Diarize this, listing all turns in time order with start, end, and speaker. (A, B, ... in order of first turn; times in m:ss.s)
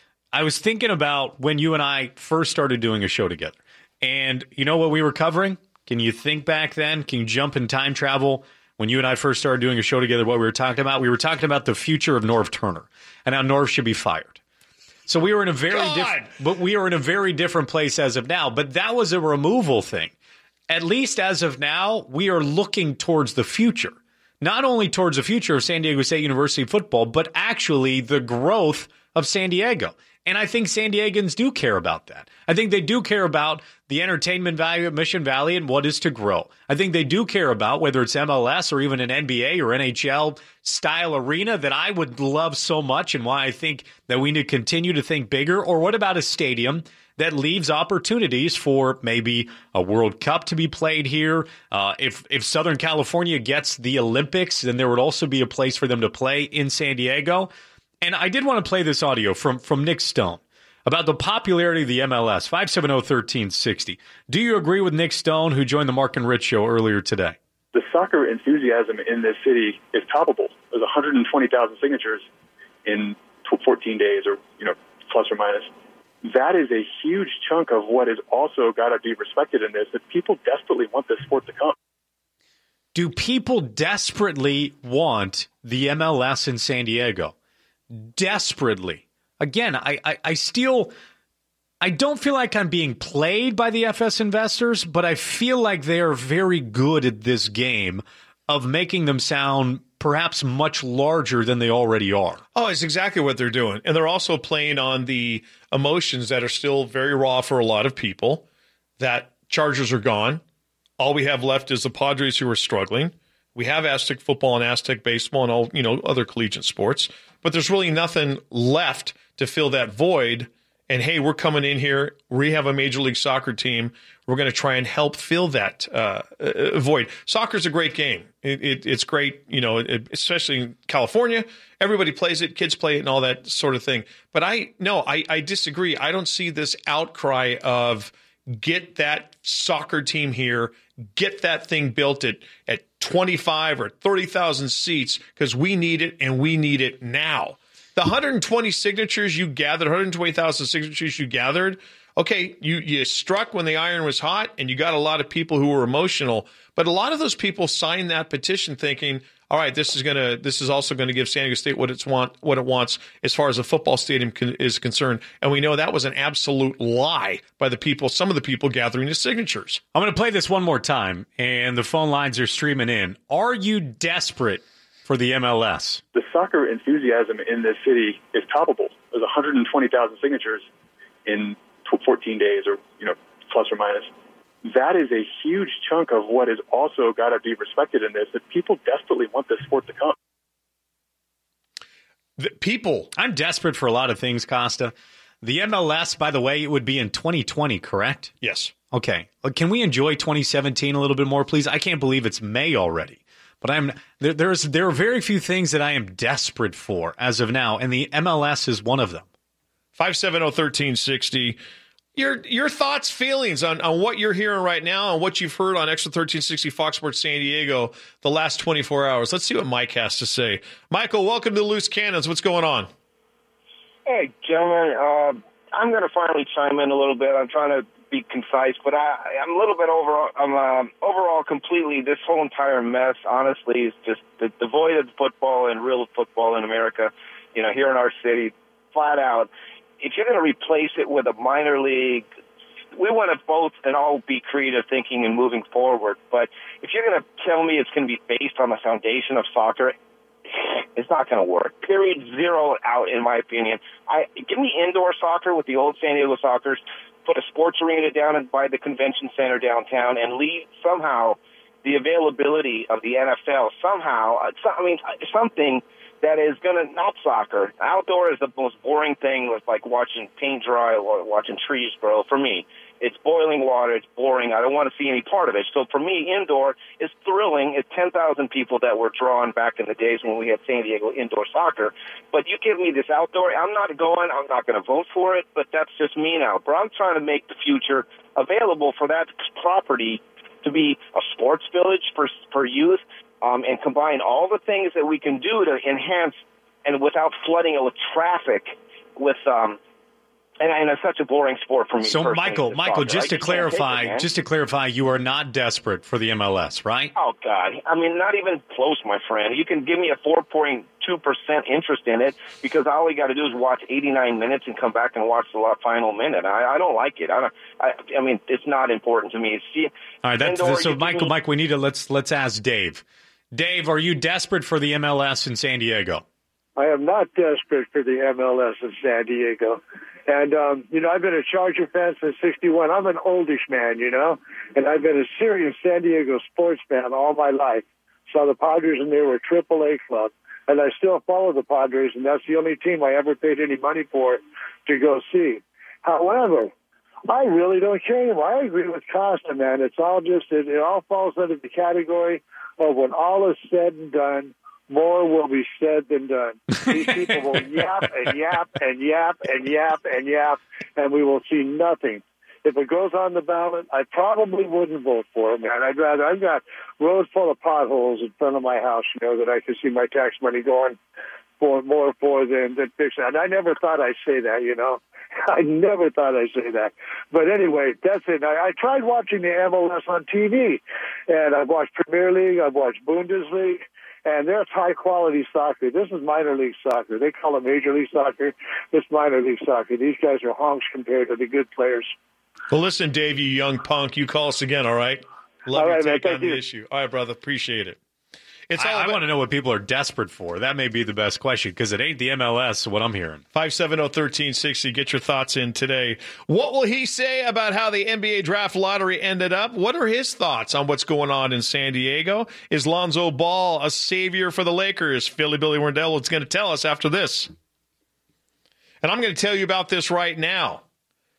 0:00.3-0:14.4 A
0:15.1-0:20.1 A
0:15.7-0:16.3 B
0:20.7-0:57.5 A
0:58.0-1:07.4 A
1:07.7-1:12.3 C
1:12.9-1:15.7 C
1:16.2-1:21.8 C
1:23.0-1:27.3 A
1:27.9-1:30.9 A
1:31.8-1:42.4 A
1:42.6-1:48.4 B
1:49.0-1:50.4 B
1:51.0-2:49.8 B
2:49.9-2:56.0 A
2:56.2-3:00.7 C
3:01.3-3:04.1 C
3:04.6-3:10.2 C
3:12.4-3:13.1 B
3:13.2-3:18.3 A
3:18.4-3:18.7 B
3:18.9-3:29.3 A
3:30.0-3:31.6 B
3:32.2-3:42.9 B
3:44.1-3:59.5 D
4:00.0-4:02.2 D
4:03.0-4:09.9 D
4:11.0-4:59.8 D
5:00.6-5:04.3 D
5:02.0-5:07.1 A
5:07.2-5:21.3 D
5:20.2-5:26.2 A
5:26.8-5:46.7 E
5:47.3-6:11.0 E
6:11.6-6:32.1 E
6:32.7-6:38.0 B
6:35.7-6:36.6 E
6:38.7-6:39.2 B
6:38.8-6:43.4 A
6:43.5-6:57.5 B
6:59.0-7:00.8 B